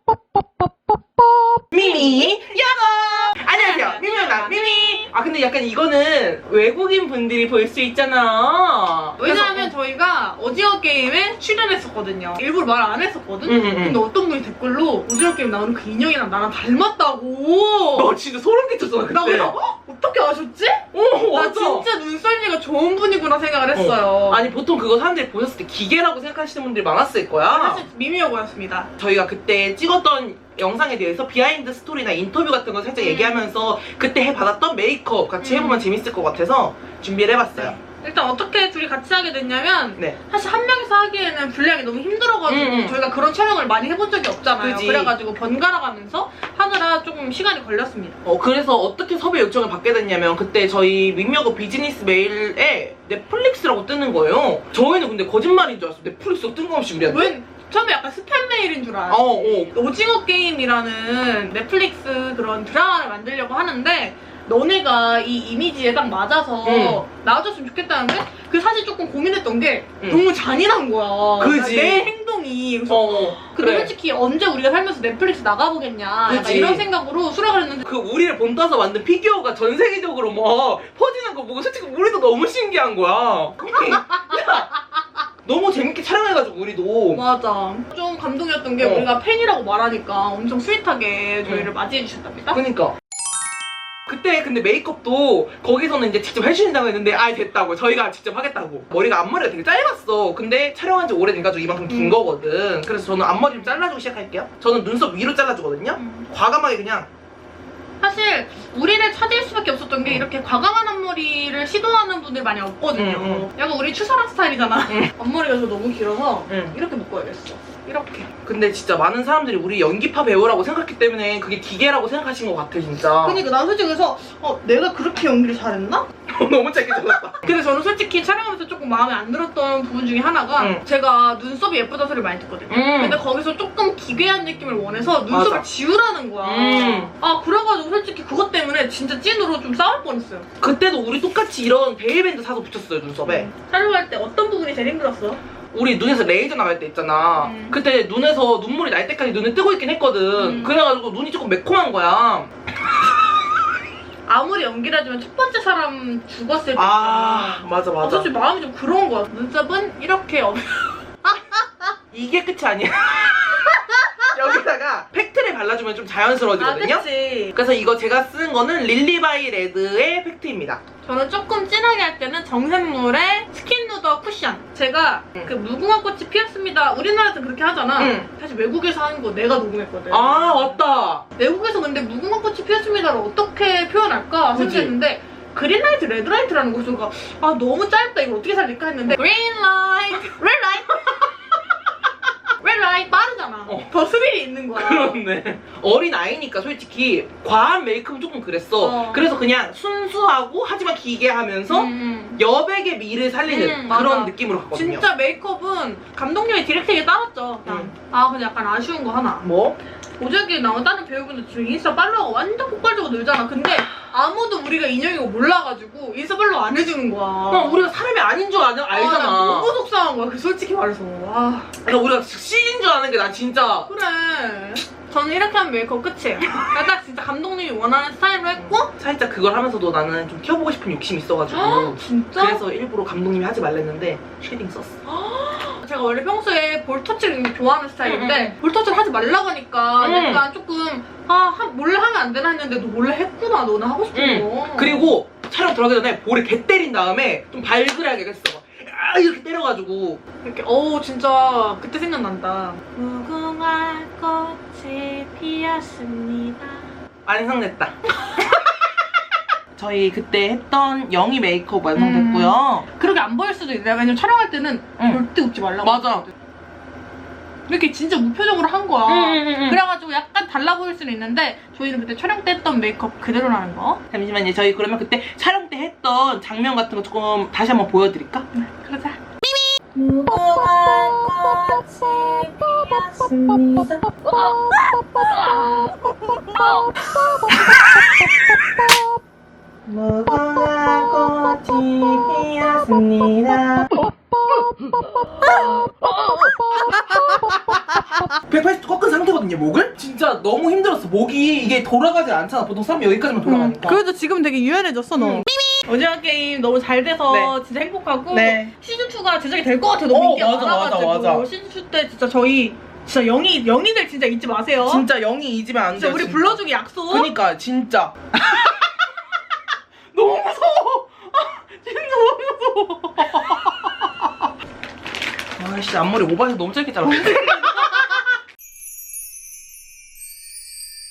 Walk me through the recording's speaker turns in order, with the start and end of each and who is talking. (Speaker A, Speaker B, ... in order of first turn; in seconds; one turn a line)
Speaker A: 1.7-9.7
Speaker B: 1.8-2.2
Speaker B: 3.4-5.1
Speaker B: 9.2-18.1
Speaker A: 13.4-14.0
Speaker A: 17.9-19.5
Speaker B: 19.1-24.5
Speaker A: 20.9-21.9
Speaker A: 23.7-27.8
Speaker B: 27.5-28.9
Speaker A: 29.0-37.7
Speaker B: 33.0-33.5
Speaker B: 35.4-35.8
Speaker B: 37.5-48.2
Speaker A: 42.5-43.0
Speaker A: 44.6-45.1
Speaker A: 48.2-57.3
Speaker B: 57.0-77.9
Speaker A: 59.1-59.7
Speaker A: 66.6-67.0
Speaker A: 71.4-72.1
Speaker A: 72.9-73.9
Speaker A: 76.3-76.8
Speaker A: 77.8-84.7
Speaker B: 83.7-84.7
Speaker A: 85.4-87.2
Speaker B: 87.1-92.6
Speaker A: 88.8-89.1
Speaker A: 92.5-92.9
Speaker A: 94.1-107.1
Speaker B: 101.9-102.2
Speaker B: 103.5-103.8
Speaker B: 106.0-106.3
Speaker B: 108.0-118.3
Speaker A: 113.0-113.5
Speaker A: 116.5-116.7
Speaker A: 118.4-123.4
Speaker B: 123.2-126.1
Speaker A: 126.3-127.5
Speaker B: 127.4-140.5
Speaker A: 132.7-133.2
Speaker A: 135.2-135.7
Speaker A: 136.4-137.1
Speaker A: 140.6-143.5
Speaker B: 143.2-145.4
Speaker A: 145.7-152.5
Speaker B: 147.4-147.8
Speaker B: 150.4-150.7
Speaker B: 154.2-161.9
Speaker A: 156.8-158.3
Speaker A: 162.1-170.8
Speaker B: 163.6-164.3
Speaker B: 166.6-167.5
Speaker B: 171.0-180.8
Speaker A: 178.0-178.3
Speaker A: 180.1-181.2
Speaker B: 181.3-191.3
Speaker A: 184.5-184.9
Speaker B: 192.6-195.2
Speaker A: 194.7-205.0
Speaker B: 198.8-199.3
Speaker B: 201.7-202.4
Speaker B: 203.5-209.5
Speaker A: 207.6-207.9
Speaker A: 209.4-209.8
Speaker B: 210.2-217.9
Speaker A: 217.5-219.7
Speaker B: 218.9-221.7
Speaker A: 221.8-223.9
Speaker B: 223.9-228.9
Speaker A: 228.6-235.0
Speaker B: 231.5-232.6
Speaker B: 235.0-245.1
Speaker A: 238.0-238.5
Speaker A: 240.0-240.4
Speaker A: 244.1-250.2
Speaker B: 250.4-256.9
Speaker A: 257.2-257.9
Speaker B: 258.2-258.9
Speaker A: 259.8-262.9
Speaker B: 261.9-266.3
Speaker A: 265.8-266.2
Speaker B: 267.7-274.0
Speaker A: 269.1-269.8
Speaker A: 274.1-278.4
Speaker B: 278.5-279.2
Speaker A: 280.0-284.1
Speaker B: 286.5-286.9
Speaker A: 289.9-293.9
Speaker B: 295.4-295.8
Speaker B: 296.8-297.8
Speaker A: 298.5-304.0
Speaker B: 303.4-315.0
Speaker A: 305.2-305.4
Speaker A: 307.3-307.5
Speaker A: 308.3-308.7
Speaker A: 310.1-311.4
Speaker A: 314.8-316.6
Speaker B: 315.9-317.3
Speaker A: 317.1-318.9
Speaker A: 320.1-322.1
Speaker B: 321.9-323.7
Speaker A: 323.2-323.4
Speaker A: 325.6-328.0
Speaker B: 327.2-328.1